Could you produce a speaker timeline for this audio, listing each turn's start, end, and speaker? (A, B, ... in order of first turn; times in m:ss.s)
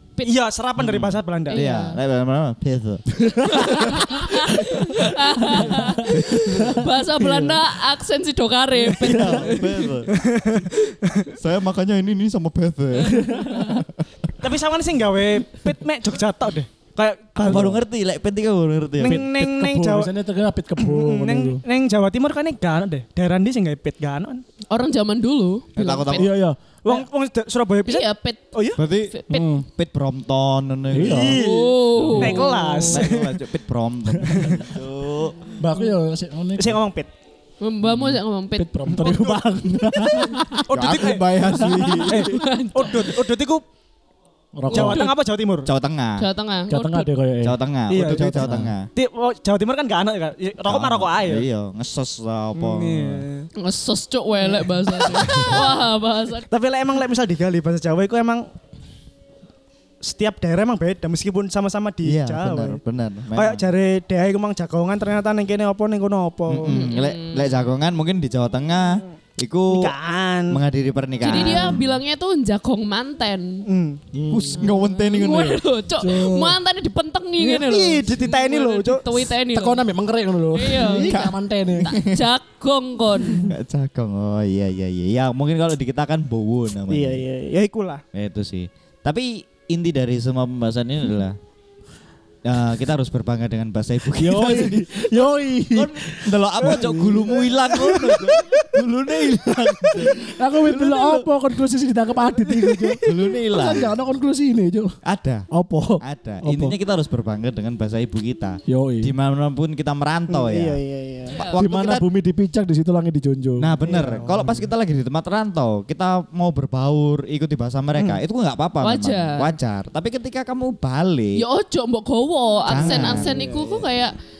0:00.2-0:01.6 A
0:00.8-0:04.1 B
0:01.5-0:02.0 C
0:03.3-0:03.9 D
0:03.4-0:10.0 C
0:05.5-0:07.7 D
0:05.7-0:06.8 B
0:08.9-0:10.1 B
0:09.1-0:09.5 A
0:10.1-0:11.3 A
0:11.3-0:14.0 B
0:13.1-0:13.8 D
0:14.4-0:17.8 A
0:17.4-0:19.2 B
0:17.4-0:17.8 D
0:19.0-0:21.6 D
0:19.0-0:20.1 A
0:20.8-0:24.4 A
0:24.7-0:26.3 C
0:25.7-0:26.3 B
0:26.1-0:26.7 D
0:26.8-0:28.8 A
0:27.8-0:28.4 C
0:28.8-0:31.4 B
0:29.1-0:29.4 C
0:29.3-0:29.7 D
0:30.9-0:31.4 D
0:31.0-0:33.4 A
0:31.3-0:32.9 C
0:32.0-0:35.5 B
0:32.0-0:32.8 D
0:34.1-0:34.6 D
0:35.6-0:36.8 D
0:36.6-0:37.1 A
0:37.6-0:40.5 C
0:37.8-0:38.2 B
0:38.6-0:42.3 D
0:38.9-0:39.4 A
0:40.6-0:41.3 A
0:40.7-0:42.4 B
0:42.1-0:43.6 A
0:42.1-0:43.2 C
0:44.6-0:45.1 D
0:44.7-0:45.1 C
0:44.7-0:45.7 A
0:45.6-0:46.3 B
0:46.2-0:47.1 C
0:46.7-0:48.7 D
0:47.4-0:48.9 B
0:47.9-0:51.4 A
0:50.6-0:53.2 B
0:52.5-0:53.5 A
0:53.6-0:56.4 C
0:54.5-0:55.6 A
0:56.5-0:58.4 A
1:00.0-1:02.8 A
1:02.0-1:03.7 B
1:03.3-1:06.8 A
1:06.5-1:09.9 B
1:06.6-1:07.5 C
1:09.7-1:10.6 A
1:10.5-1:11.9 B
1:11.2-1:13.6 C
1:11.2-1:11.6 A
1:13.6-1:14.0 A
1:14.1-1:14.7 D
1:14.3-1:15.6 B
1:14.6-1:19.8 C
1:16.0-1:16.6 D
1:17.4-1:19.3 A
1:19.5-1:21.9 D
1:20.5-1:23.5 C
1:21.1-1:22.2 B
1:23.4-1:27.2 B
1:26.9-1:28.0 A
1:28.1-1:31.4 B
1:32.4-1:41.3 B
1:34.1-1:37.3 D
1:36.6-1:38.6 A
1:40.0-1:44.9 D
1:42.4-1:43.3 A
1:43.0-1:43.9 B
1:45.0-1:45.5 B
1:45.5-1:46.8 D
1:46.0-1:50.8 B
1:48.7-1:49.1 D
1:50.3-1:51.4 A
1:51.3-1:52.0 B
1:51.6-1:53.8 D
1:53.6-2:01.4 B
1:53.8-1:54.7 A
1:58.8-1:59.5 C
2:01.4-2:04.1 C
2:02.7-2:03.6 B
2:02.7-2:03.8 A